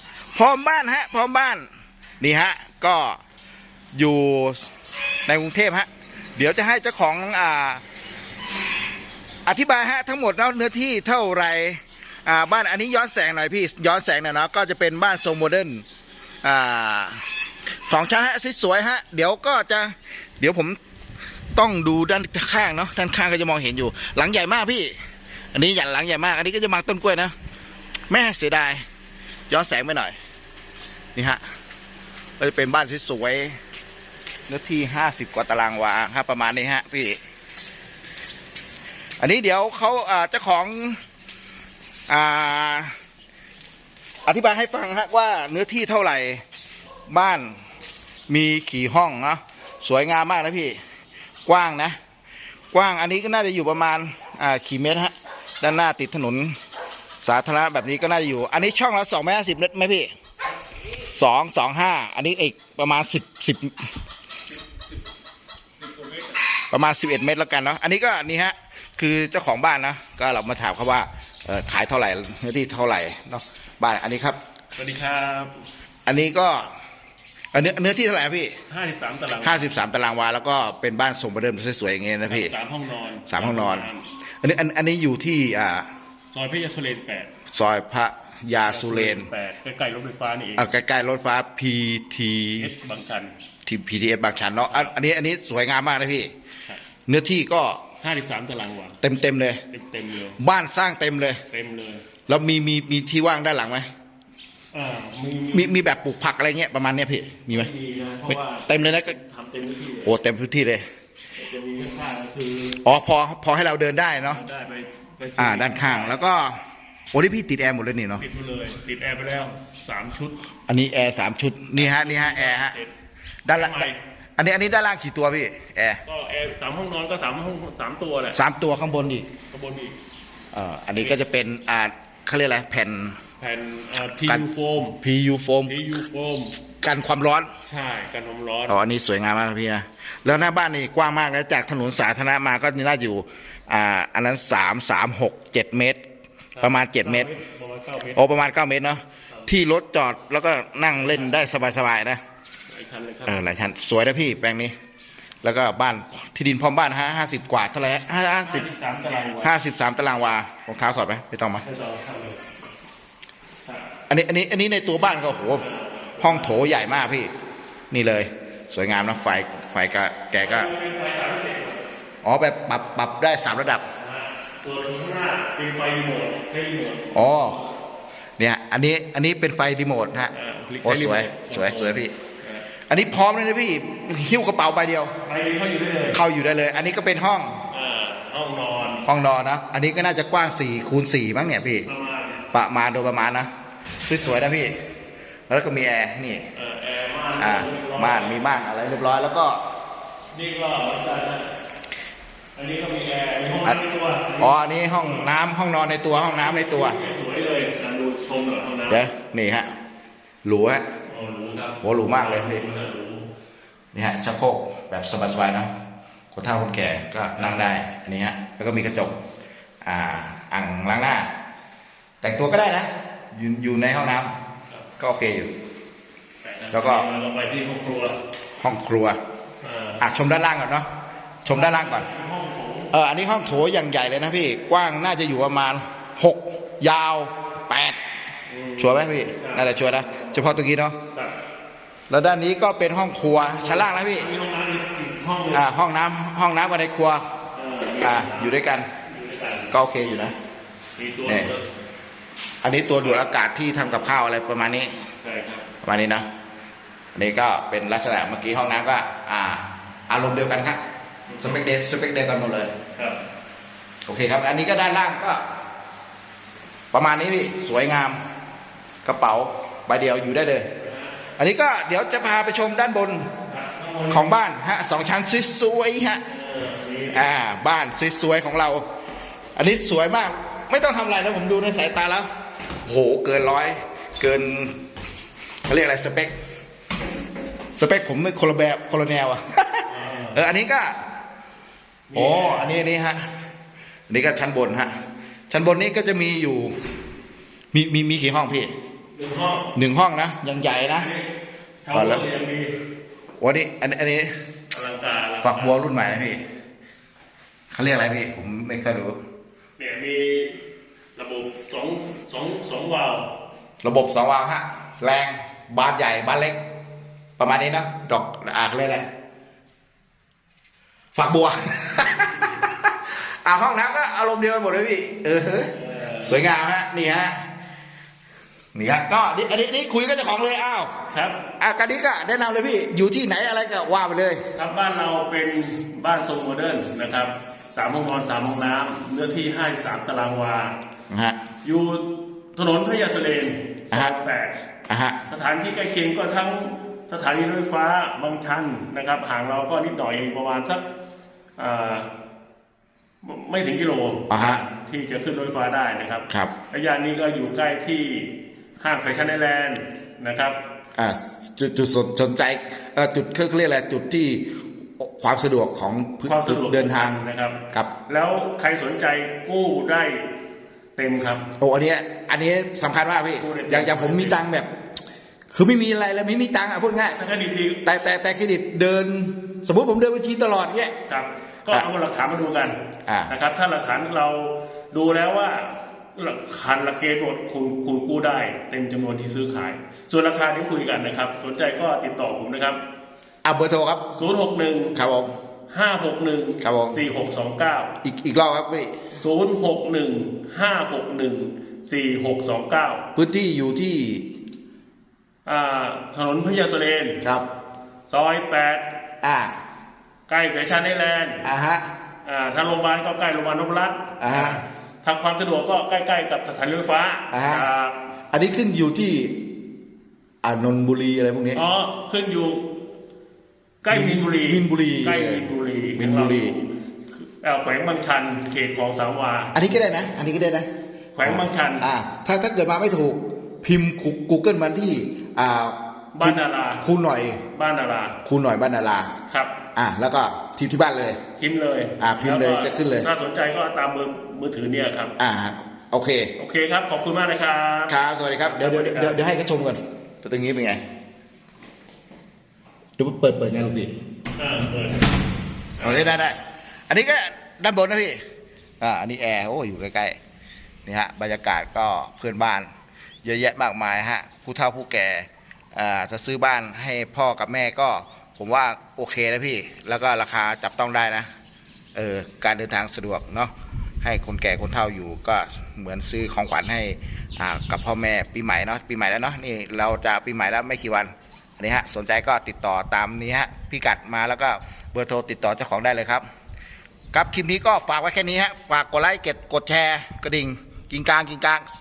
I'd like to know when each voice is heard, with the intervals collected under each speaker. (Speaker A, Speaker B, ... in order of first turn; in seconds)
Speaker A: 0.3-1.6, 2.2-3.2, 3.9-4.7, 5.3-7.8, 9.4-15.8, 16.4-20.8, 21.5-24.9, 25.5-27.3, 28.1-28.8, 29.5-30.1, 31.1-31.4, 32.4-33.5, 34.5-37.2, 39.2-41.0, 42.1-42.9, 44.2-46.4, 47.1-47.6, 48.3-50.8, 51.5-52.0, 52.7-56.5, 57.2-60.1, 61.0-63.9, 66.7-74.4, 76.0-76.7, 77.5-78.5, 79.4-82.5, 83.3-83.9, 84.4-85.9, 87.5-89.3, 90.6-92.7, 93.6-96.3, 97.1-97.8, 99.0-99.6, 100.4-101.4, 102.3-103.8, 105.5-107.7, 108.3-109.2, 110.0-110.8, 112.8-114.4, 115.4-116.6, 117.1-118.2, 120.7-122.8, 123.5-123.9, 124.4-126.0, 128.3-129.3, 130.5-133.2, 135.0-135.8, 136.8-137.5, 138.7-146.0, 146.6-147.3, 148.1-152.2, 153.2-154.7, 155.4-158.7, 159.4-161.6, 164.1-165.7, 166.2-167.3, 167.9-170.7, 172.2-173.8, 177.1-177.6, 178.4-180.3, 180.8-182.1, 182.9-185.1, 186.1-187.5, 189.1-191.9, 192.5-193.5, 194.0-194.7, 195.5-196.4, 197.4-199.6, 204.4-207.0, 208.9-209.7, 210.4-210.8, 211.8-212.6, 213.9-215.7, 216.3-219.2, 219.8-221.3, 222.2-224.3, 225.0-225.5, 226.7-227.1, 228.6-229.2, 230.0-230.9, 231.4-232.1, 232.9-238.0, 238.8-241.0, 242.1-244.3, 245.5-247.2, 248.0-248.9, 249.7-250.3, 252.6-255.0, 255.8-256.2, 257.1-260.8, 261.4-262.7, 264.1-265.4, 266.9-268.2, 269.0-270.7, 271.4-273.3, 274.1-276.2, 277.1-278.8, 279.6-282.3, 282.8-284.8, 285.7-286.3, 287.8-291.0, 292.1-293.3, 294.1-294.9, 295.5-296.7, 297.7-298.7, 299.7-301.1, 301.9-302.2, 303.4-304.3, 305.4-306.4, 307.7-309.2, 313.8-316.6, 317.4-319.0, 321.1-327.4, 328.7-330.9, 331.6-334.4, 341.1-341.4, 343.9-344.2, 344.9-345.2, 354.3-354.6, 356.3-356.5, 360.9-364.4, 365.0-367.9, 371.6-374.7, 375.5-377.2, 377.8-380.9, 383.1-383.3, 393.4-394.1, 394.9-395.3, 396.6-397.0, 398.0-399.1, 403.1-404.2, 409.2-409.5, 411.4-411.9, 414.2-414.6, 417.3-417.7, 418.3-419.3, 420.4-421.6, 423.9-425.4, 426.0-426.6, 429.5-430.6, 431.2-437.4, 438.2-439.1, 439.8-441.2, 442.0-443.1, 445.2-446.3, 447.9-450.8, 453.0-453.9, 455.8-456.4, 456.9-458.2, 458.8-460.1, 460.9-462.7, 463.2-471.3, 471.9-486.2, 487.1-491.6
Speaker B: 65.8-66.4, 74.8-75.5, 78.7-79.7, 82.3-84.1, 86.3-87.3, 88.7-90.7, 92.6-93.3, 98.0-99.0, 99.7-100.4, 101.5-102.0, 104.7-105.8, 107.5-110.1, 111.4-112.8, 114.2-116.2, 118.2-120.4, 121.8-122.9, 123.5-124.0, 126.0-128.4, 129.5-129.9, 133.4-135.0, 135.7-136.6, 137.7-138.8, 146.6-148.2, 151.0-151.4, 152.7-153.4, 158.4-159.5, 161.6-162.5, 165.5-167.2, 170.4-171.8, 173.9-177.6, 180.3-182.7, 185.2-186.2, 187.7-189.0, 191.8-192.4, 196.5-198.4, 200.3-201.5, 202.6-205.3, 206.2-209.0, 211.1-213.2, 217.4-217.6, 226.4-228.2, 229.6-230.0, 231.5-232.9, 238.5-239.7, 243.4-245.7, 247.5-249.7, 251.0-251.6, 252.9-253.2, 255.2-255.7, 261.3-261.6, 262.9-263.2, 270.8-271.1, 273.5-274.3, 276.3-277.3, 289.9-290.4, 292.1-292.8, 299.1-299.7, 301.0-301.3, 301.8-302.7, 304.7-305.8, 309.8-310.6, 311.1-313.3, 325.7-326.4, 331.1-331.4, 334.5-340.8, 341.6-344.6, 345.3-350.8, 351.6-352.1, 353.2-360.6, 366.2-370.2, 371.0-371.5, 373.4-374.4, 377.2-377.8, 381.1-382.8, 383.3-392.8, 394.1-395.0, 395.7-397.9, 399.1-403.0, 405.4-407.2, 408.1-408.9, 410.3-411.5, 412.2-418.0, 421.5-422.6, 423.8-426.7, 427.4-429.5, 431.1-431.9, 436.1-436.8, 437.5-438.2, 439.3-439.6, 441.4-445.1, 446.4-449.2, 454.4-455.2, 455.8-456.2